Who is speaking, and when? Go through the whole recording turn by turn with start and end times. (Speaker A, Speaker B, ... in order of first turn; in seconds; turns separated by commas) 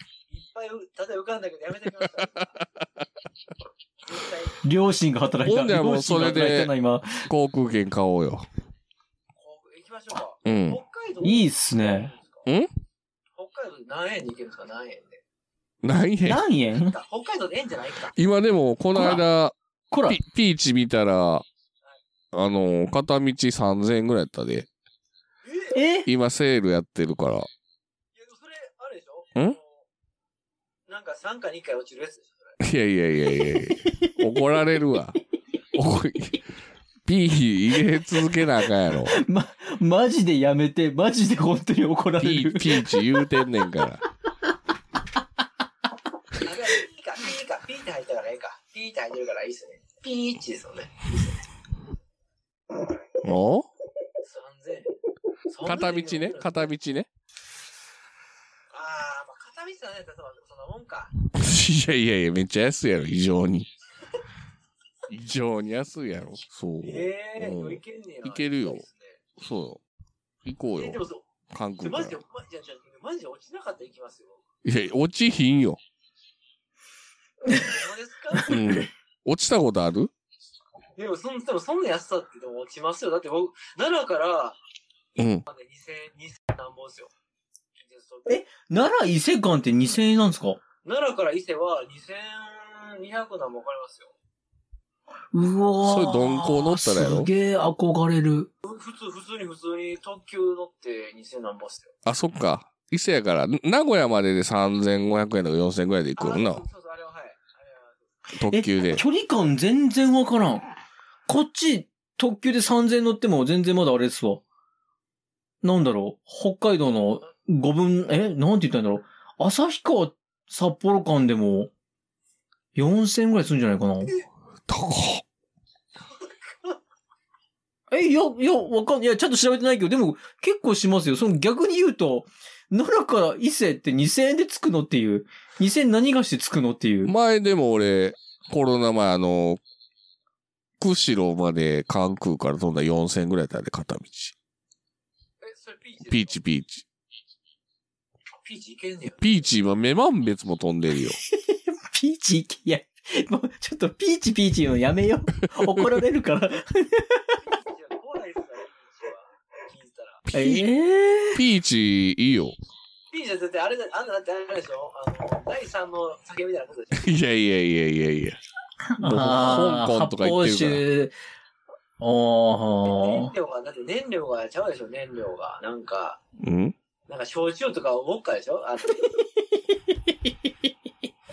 Speaker A: 0.3-2.5, Speaker A: 4.0-4.6, Speaker B: 4.6-7.3, Speaker C: 5.5-6.7, Speaker C: 7.3-8.5, Speaker A: 9.4-12.5, Speaker C: 10.4-10.8, Speaker B: 11.2-12.1, Speaker A: 13.4-15.2, Speaker C: 15.8-16.4, Speaker B: 16.3-16.9, Speaker A: 16.7-18.1, Speaker C: 18.1-19.6, Speaker B: 18.9-19.2, Speaker B: 19.9-20.2, Speaker C: 20.1-21.4, Speaker C: 22.3-24.7, Speaker A: 25.4-25.8, Speaker B: 25.7-26.1, Speaker C: 26.1-27.5, Speaker A: 28.1-29.9, Speaker A: 30.9-32.6, Speaker C: 32.6-35.2, Speaker B: 33.6-34.2, Speaker C: 35.7-36.4, Speaker C: 37.1-39.2, Speaker B: 37.9-38.4, Speaker B: 38.9-43.9, Speaker C: 42.2-44.0, Speaker A: 46.4-51.5, Speaker C: 53.2-53.7, Speaker A: 54.2-54.9, Speaker A: 55.5-56.8, Speaker C: 55.6-57.1, Speaker A: 58.7-61.1, Speaker C: 61.3-63.7, Speaker C: 65.1-68.8, Speaker A: 66.8-69.2, Speaker C: 69.4-69.8, Speaker C: 70.5-72.2, Speaker A: 70.7-71.2, Speaker A: 71.8-74.4, Speaker C: 74.7-75.8, Speaker A: 77.5-78.6, Speaker B: 78.4-78.8, Speaker C: 78.5-80.1, Speaker A: 81.0-84.6, Speaker C: 85.2-85.5, Speaker A: 85.5-87.1, Speaker A: 87.8-88.4, Speaker B: 88.3-90.6, Speaker A: 90.8-94.1, Speaker B: 95.3-98.5, Speaker C: 95.8-97.3, Speaker A: 98.6-101.9, Speaker C: 102.0-106.7, Speaker A: 106.2-108.1, Speaker C: 108.4-109.0, Speaker B: 108.5-110.7, Speaker B: 111.3-114.4, Speaker B: 115.6-121.7, Speaker B: 122.8-124.1, Speaker C: 124.7-125.2, Speaker A: 126.0-126.8, Speaker B: 127.9-137.1, Speaker C: 137.1-139.6, Speaker C: 140.8-144.3, Speaker A: 145.4-146.4, Speaker C: 146.1-146.8, Speaker A: 148.4-149.2, Speaker C: 149.2-151.2, Speaker B: 151.2-157.4, Speaker A: 157.4-160.2, Speaker C: 160.3-160.6, Speaker B: 160.3-161.4, Speaker C: 161.3-162.6, Speaker A: 163.1-167.2, Speaker C: 167.0-168.4, Speaker B: 168.9-171.2, Speaker C: 169.0-170.8, Speaker B: 172.0-173.3, Speaker A: 172.8-176.2, Speaker C: 176.4-176.8, Speaker A: 177.1-179.2, Speaker B: 179.2-180.5